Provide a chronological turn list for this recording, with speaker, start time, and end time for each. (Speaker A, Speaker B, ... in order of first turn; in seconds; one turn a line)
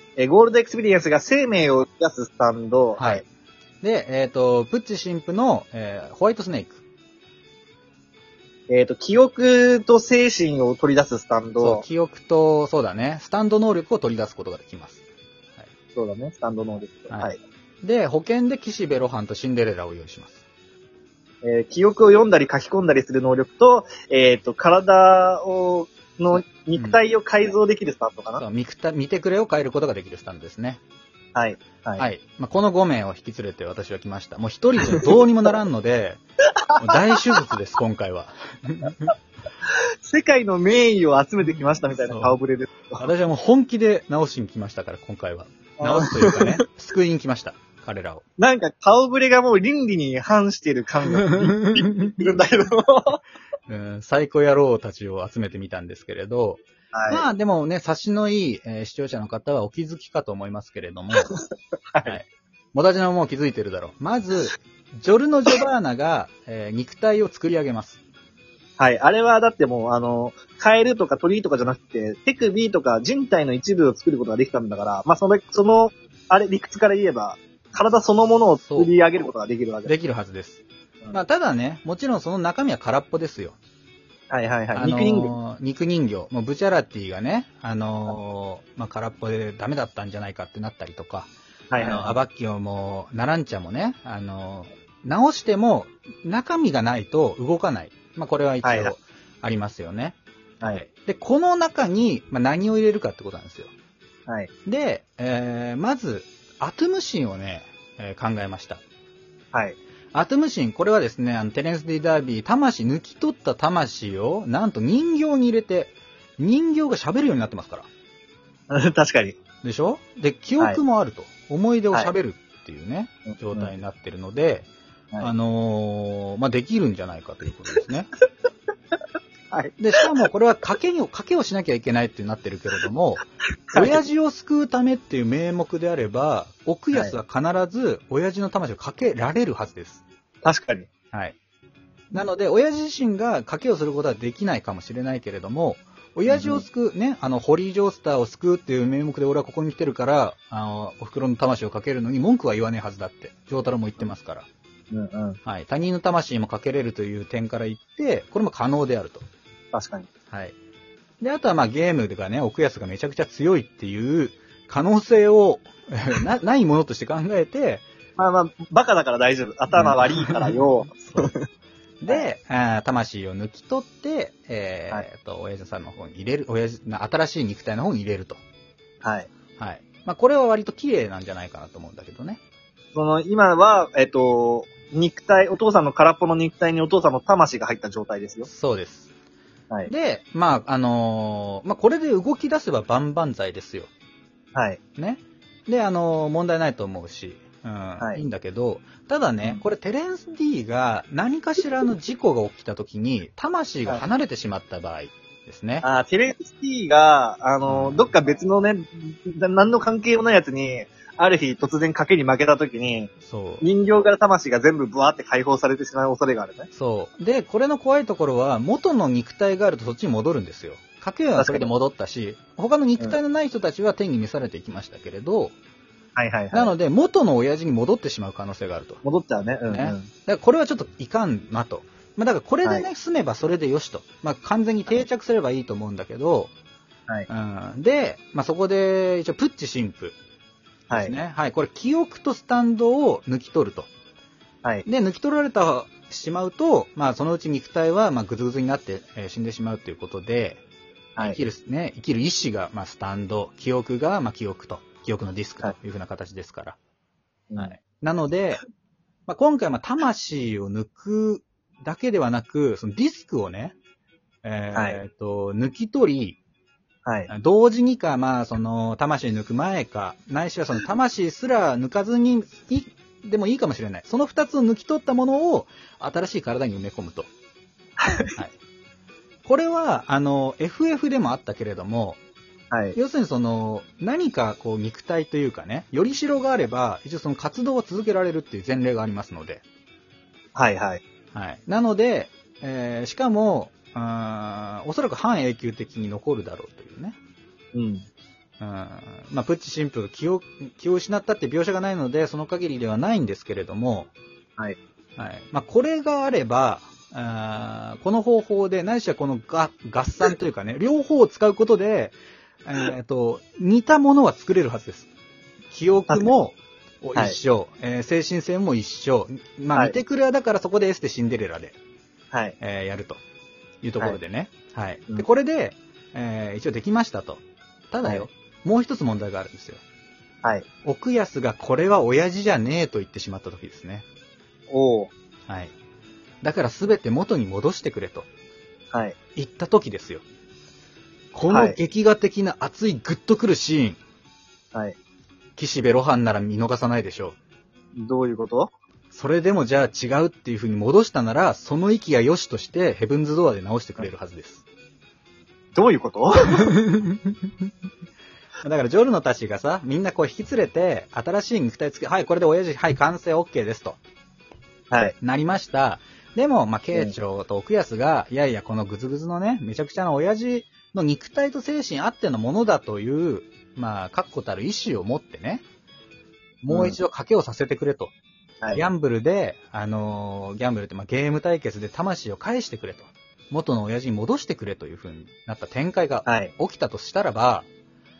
Speaker A: 0.2-3.2
Speaker B: 3.0-3.2
Speaker B: 3.8-6.8
Speaker A: 8.7-11.8
Speaker B: 11.6-15.0
Speaker A: 16.0-17.4
Speaker B: 17.8-20.4
Speaker A: 21.4-28.4
Speaker B: 26.3-27.0
Speaker B: 28.4-30.8
Speaker A: 31.3-32.0
Speaker B: 32.0-36.2
Speaker A: 36.7-37.2
Speaker B: 36.8-39.1
Speaker A: 40.0-43.1
Speaker B: 42.0-42.4
Speaker B: 43.0-48.2
Speaker A: 45.8-46.6
Speaker A: 48.4-53.2
Speaker B: 51.2-52.1
Speaker B: 53.7-61.3
Speaker A: 56.9-57.3
Speaker A: 61.2-62.2
Speaker B: 62.0-68.0
Speaker A: 68.8-79.9
Speaker B: 78.6-78.9
Speaker B: 79.9-83.6
Speaker A: 84.3-85.3
Speaker B: 84.7-103.7
Speaker A: 91.7-92.2
Speaker A: 98.6-98.9
Speaker B: 104.7-108.8
Speaker B: 110.1-117.9
Speaker A: 118.7-119.4
Speaker B: 119.6-124.7
Speaker A: 123.3-123.7
Speaker B: 125.2-128.1
Speaker A: 129.5-130.1
Speaker B: 129.8-140.0
Speaker A: 133.7-134.0
Speaker A: 140.4-140.9
Speaker B: 142.1-154.4
Speaker A: 146.3-146.6
Speaker A: 154.9-155.4
Speaker B: 155.4-159.2
Speaker A: 159.7-160.1
Speaker B: 161.2-167.8
Speaker A: 168.2-171.4
Speaker B: 169.7-171.3
Speaker B: 172.0-178.4
Speaker A: 179.0-179.3
Speaker B: 179.6-182.4
Speaker A: 182.9-188.5
Speaker B: 188.5-189.1
Speaker B: 189.9-193.9
Speaker A: 194.6-194.8
Speaker B: 195.0-205.8
Speaker A: 205.8-216.7
Speaker B: 207.7-208.1
Speaker B: 213.2-213.7
Speaker B: 216.7-225.5
Speaker A: 221.4-221.7
Speaker A: 226.2-226.8
Speaker B: 226.5-229.0
Speaker A: 229.0-230.1
Speaker B: 229.7-236.5
Speaker B: 237.3-240.2
Speaker A: 240.9-241.1
Speaker B: 240.9-243.9
Speaker B: 244.9-250.6
Speaker A: 251.2-251.4
Speaker B: 251.2-256.8
Speaker B: 257.6-258.6
Speaker B: 259.3-263.8
Speaker B: 264.4-266.4
Speaker A: 264.7-265.0
Speaker A: 267.1-267.3
Speaker B: 267.3-277.3
Speaker A: 278.0-278.3
Speaker B: 279.4-282.2
Speaker A: 282.7-283.0
Speaker B: 282.9-289.6
Speaker A: 290.6-291.0
Speaker B: 291.3-297.2
Speaker A: 297.7-298.1
Speaker B: 298.6-304.1
Speaker B: 305.2-315.1
Speaker B: 315.7-321.8
Speaker B: 322.6-323.2
Speaker B: 323.8-329.8
Speaker B: 330.8-334.1
Speaker A: 334.7-335.1
Speaker B: 335.5-335.7
Speaker B: 336.4-338.3
Speaker B: 339.4-340.2
Speaker B: 341.3-344.0
Speaker A: 341.5-341.8
Speaker B: 345.6-347.4
Speaker A: 348.0-348.7
Speaker B: 349.1-354.6
Speaker A: 355.8-356.8
Speaker B: 356.6-357.5
Speaker B: 358.6-364.0
Speaker B: 365.2-375.6
Speaker B: 376.6-378.1
Speaker A: 376.7-377.0
Speaker B: 378.7-387.7
Speaker A: 386.2-386.5